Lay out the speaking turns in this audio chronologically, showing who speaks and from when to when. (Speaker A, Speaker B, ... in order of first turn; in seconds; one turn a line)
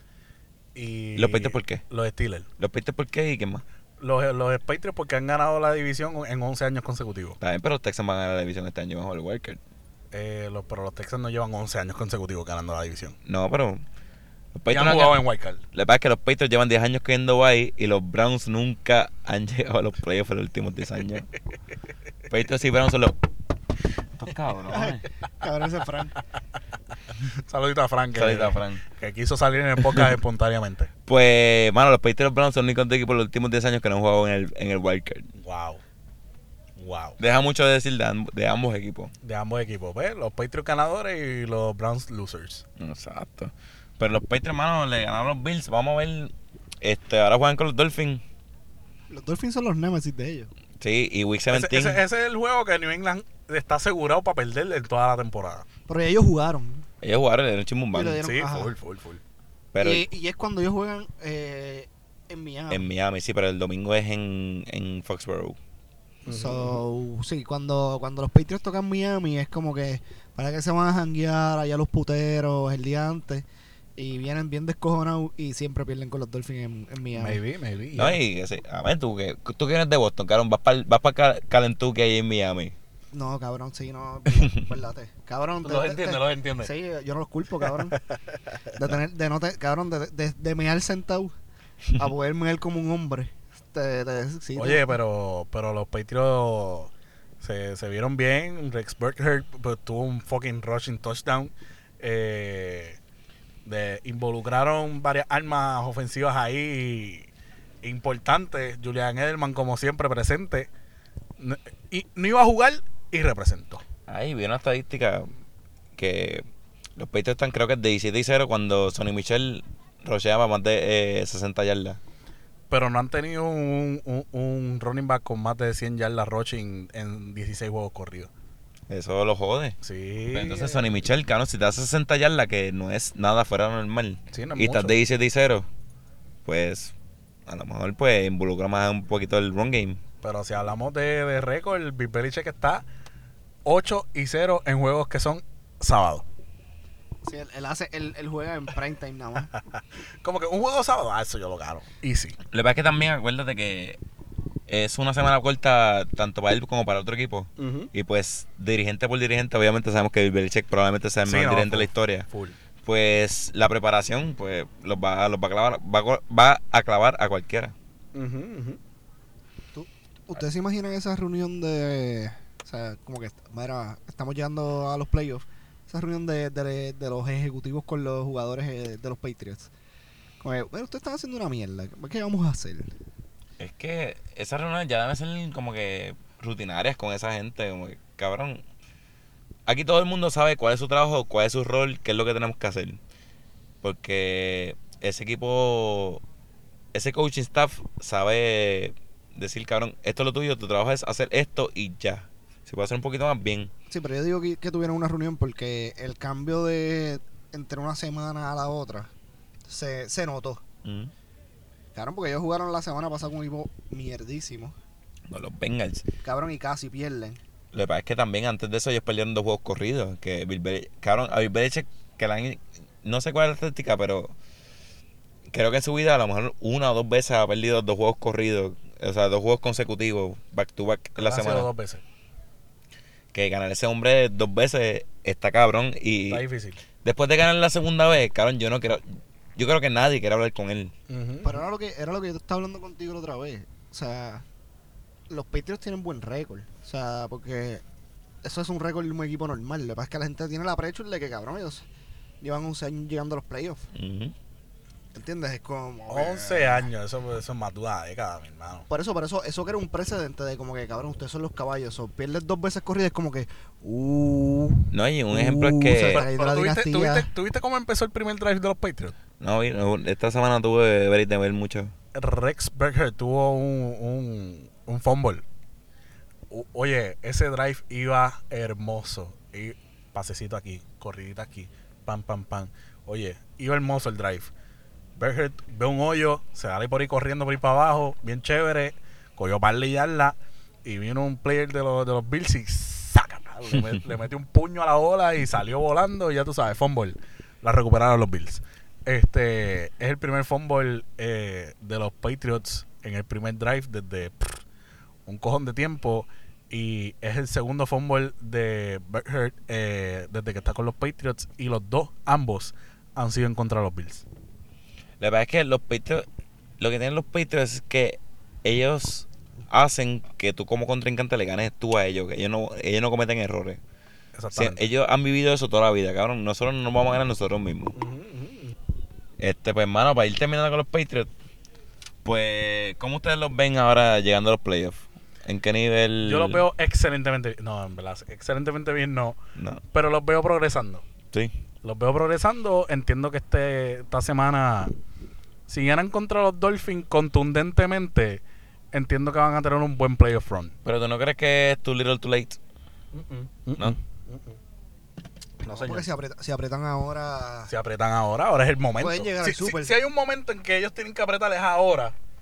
Speaker A: 0.7-2.5
Speaker B: 1.1-1.8
Speaker B: 2.6-3.6
Speaker A: 4.0-7.4
Speaker B: 7.4-9.6
Speaker A: 10.1-13.2
Speaker B: 13.2-13.8
Speaker B: 14.5-21.2
Speaker A: 14.7-15.6
Speaker B: 22.3-23.2
Speaker B: 24.2-25.0
Speaker C: 24.7-26.2
Speaker A: 27.4-30.9
Speaker B: 28.1-28.8
Speaker B: 31.1-35.3
Speaker A: 35.4-35.8
Speaker A: 36.8-37.2
Speaker B: 37.2-39.1
Speaker A: 39.2-42.6
Speaker B: 42.8-48.2
Speaker C: 49.1-50.5
Speaker B: 50.8-52.0
Speaker A: 51.5-55.6
Speaker C: 55.9-56.8
Speaker B: 57.0-58.2
Speaker C: 57.9-58.7
Speaker A: 58.2-59.2
Speaker B: 59.7-60.0
Speaker C: 59.8-62.9
Speaker B: 62.7-65.6
Speaker A: 66.2-66.8
Speaker C: 66.2-73.4
Speaker C: 74.0-77.4
Speaker A: 77.2-78.2
Speaker B: 78.0-82.7
Speaker C: 83.1-88.0
Speaker B: 84.3-84.6
Speaker A: 85.6-86.7
Speaker A: 87.6-88.1
Speaker C: 88.8-91.3
Speaker C: 91.9-94.9
Speaker A: 94.5-103.0
Speaker A: 103.6-107.3
Speaker A: 107.8-110.7
Speaker A: 111.4-113.8
Speaker B: 114.1-115.3
Speaker B: 116.0-116.4
Speaker B: 117.0-122.0
Speaker A: 122.7-128.3
Speaker B: 128.9-129.8
Speaker A: 129.8-130.8
Speaker B: 130.3-135.7
Speaker A: 134.3-135.0
Speaker B: 136.4-136.9
Speaker B: 137.5-140.0
Speaker A: 140.2-142.8
Speaker A: 143.6-146.2
Speaker C: 147.2-149.5
Speaker A: 149.5-152.4
Speaker B: 152.5-154.0
Speaker B: 154.7-162.2
Speaker A: 157.6-157.9
Speaker A: 161.2-162.6
Speaker B: 162.8-167.7
Speaker A: 168.1-168.8
Speaker C: 169.7-179.7
Speaker C: 180.4-182.9
Speaker B: 183.6-188.6
Speaker B: 189.7-193.0
Speaker B: 193.8-196.2
Speaker B: 196.9-203.7
Speaker C: 203.9-209.1
Speaker C: 209.7-210.6
Speaker B: 210.8-211.1
Speaker C: 211.9-214.7
Speaker B: 215.3-216.1
Speaker C: 216.2-217.4
Speaker B: 217.7-224.3
Speaker B: 225.5-231.7
Speaker A: 231.2-232.0
Speaker B: 233.3-236.4
Speaker A: 236.3-236.8
Speaker B: 237.0-239.0
Speaker B: 239.6-240.9
Speaker A: 241.1-241.6
Speaker C: 241.4-244.4
Speaker C: 245.3-247.8
Speaker C: 248.4-251.8
Speaker C: 252.4-253.8
Speaker B: 253.9-254.3
Speaker C: 255.1-256.9
Speaker A: 256.1-258.9
Speaker C: 258.9-267.3
Speaker B: 264.9-266.2
Speaker A: 266.1-269.1
Speaker B: 269.4-271.9
Speaker A: 272.1-275.4
Speaker A: 276.5-284.5
Speaker A: 285.1-304.6
Speaker B: 293.7-294.0
Speaker A: 305.2-314.2
Speaker B: 315.2-316.2
Speaker B: 316.8-323.8
Speaker A: 324.4-324.9
Speaker B: 324.5-327.9
Speaker A: 327.9-328.7
Speaker B: 329.4-331.3
Speaker B: 332.2-336.6
Speaker A: 336.2-339.4
Speaker B: 339.6-339.8
Speaker A: 339.9-341.0
Speaker A: 341.8-344.9
Speaker A: 345.7-348.4
Speaker A: 348.9-350.7
Speaker B: 350.8-352.6
Speaker A: 353.1-354.6
Speaker A: 355.6-356.1
Speaker C: 355.6-357.7
Speaker A: 357.7-362.1
Speaker C: 359.0-359.9